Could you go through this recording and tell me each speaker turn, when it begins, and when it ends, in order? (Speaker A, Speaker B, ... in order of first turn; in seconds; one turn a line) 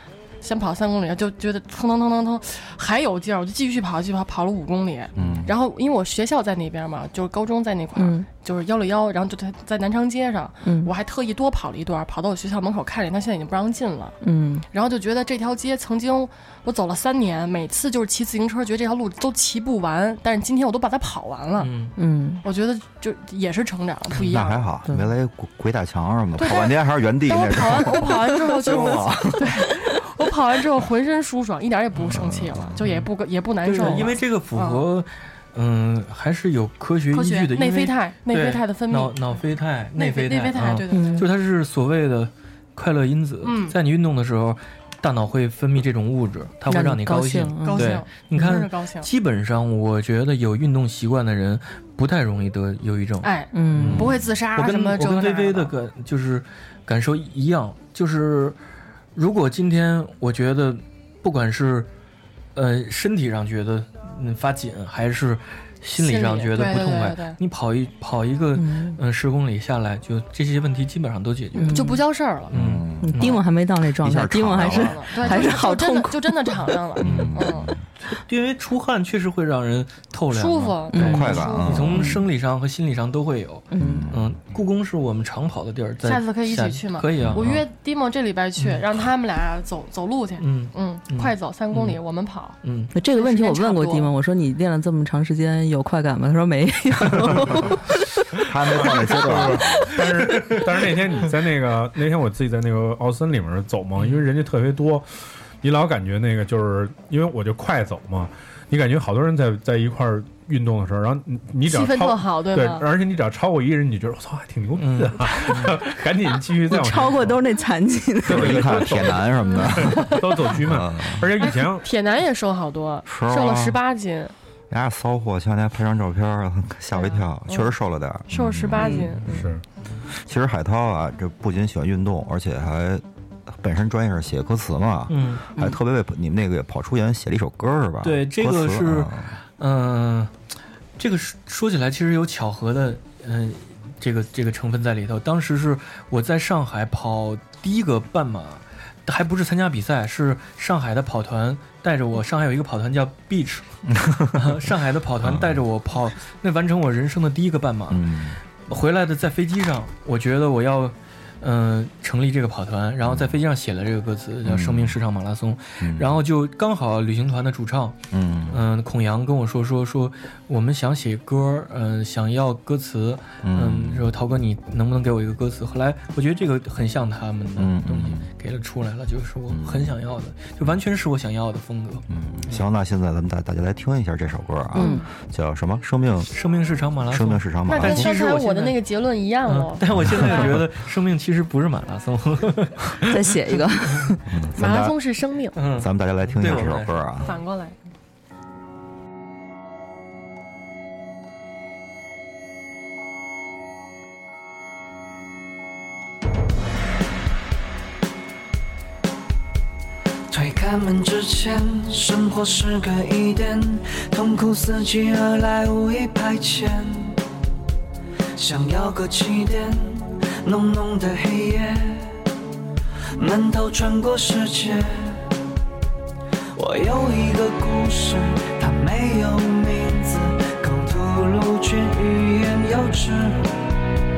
Speaker A: 0.4-14.2
Speaker B: 5.2-5.5
Speaker C: 8.0-8.3
Speaker C: 10.6-10.9
Speaker C: 14.2-14.7
Speaker A: 14.7-21.7
Speaker D: 21.6-21.9
Speaker C: 22.0-22.4
Speaker A: 22.4-24.7
Speaker B: 24.2-29.5
Speaker A: 26.4-34.8
Speaker B: 32.1-32.8
Speaker D: 32.8-33.1
Speaker D: 33.6-58.6
Speaker A: 37.1-39.4
Speaker A: 40.0-41.3
Speaker C: 40.9-41.3
Speaker A: 43.4-43.8
Speaker C: 46.7-48.6
Speaker A: 47.6-49.1
Speaker A: 53.2-55.7
Speaker C: 53.5-54.1
Speaker D: 59.1-61.9
Speaker D: 62.5-71.8
Speaker A: 66.0-67.4
Speaker C: 68.6-69.0
Speaker C: 71.5-72.0
Speaker A: 71.7-72.5
Speaker D: 72.5-73.4
Speaker B: 72.5-75.5
Speaker C: 73.0-76.7
Speaker A: 74.6-77.7
Speaker B: 77.0-77.8
Speaker D: 77.0-77.4
Speaker D: 78.1-87.6
Speaker A: 80.3-81.9
Speaker C: 80.9-82.2
Speaker B: 81.0-82.1
Speaker C: 83.7-84.1
Speaker B: 83.8-84.3
Speaker A: 86.0-92.6
Speaker B: 87.2-87.4
Speaker D: 90.4-92.0
Speaker D: 92.6-92.9
Speaker C: 92.9-98.1
Speaker A: 93.1-94.1
Speaker B: 98.4-99.9
Speaker E: 98.8-105.1
Speaker E: 105.6-117.4
Speaker A: 111.7-112.9
Speaker D: 114.8-115.7
Speaker C: 116.7-119.0
Speaker E: 118.2-121.9
Speaker B: 118.3-121.3
Speaker A: 119.5-120.2
Speaker A: 121.4-124.3
Speaker B: 123.0-123.8
Speaker B: 124.7-129.1
Speaker A: 127.0-127.7
Speaker A: 128.3-129.4
Speaker C: 128.8-129.2
Speaker E: 129.3-129.6
Speaker B: 130.1-139.4
Speaker D: 135.1-135.4
Speaker D: 138.0-140.3
Speaker D: 141.0-153.7
Speaker B: 153.9-154.6
Speaker D: 154.3-158.1
Speaker B: 155.2-155.6
Speaker B: 157.9-158.4
Speaker D: 158.7-168.0
Speaker B: 163.1-163.4
Speaker B: 164.4-165.0
Speaker B: 165.8-166.2
Speaker B: 168.1-168.6
Speaker D: 168.5-182.6
Speaker B: 173.4-174.1
Speaker B: 177.6-178.3
Speaker B: 179.5-179.9
Speaker B: 182.1-186.3
Speaker C: 184.8-185.1
Speaker A: 184.8-185.1
Speaker D: 186.3-188.8
Speaker B: 187.1-188.1
Speaker A: 187.7-190.5
Speaker D: 189.5-194.1
Speaker B: 189.9-190.6
Speaker C: 193.0-194.2
Speaker B: 194.3-195.0
Speaker A: 194.6-195.6
Speaker D: 195.6-197.0
Speaker B: 195.7-197.3
Speaker A: 197.2-197.8
Speaker F: 210.3-217.2
Speaker F: 218.4-222.2
Speaker F: 223.2-225.3
Speaker F: 226.5-233.6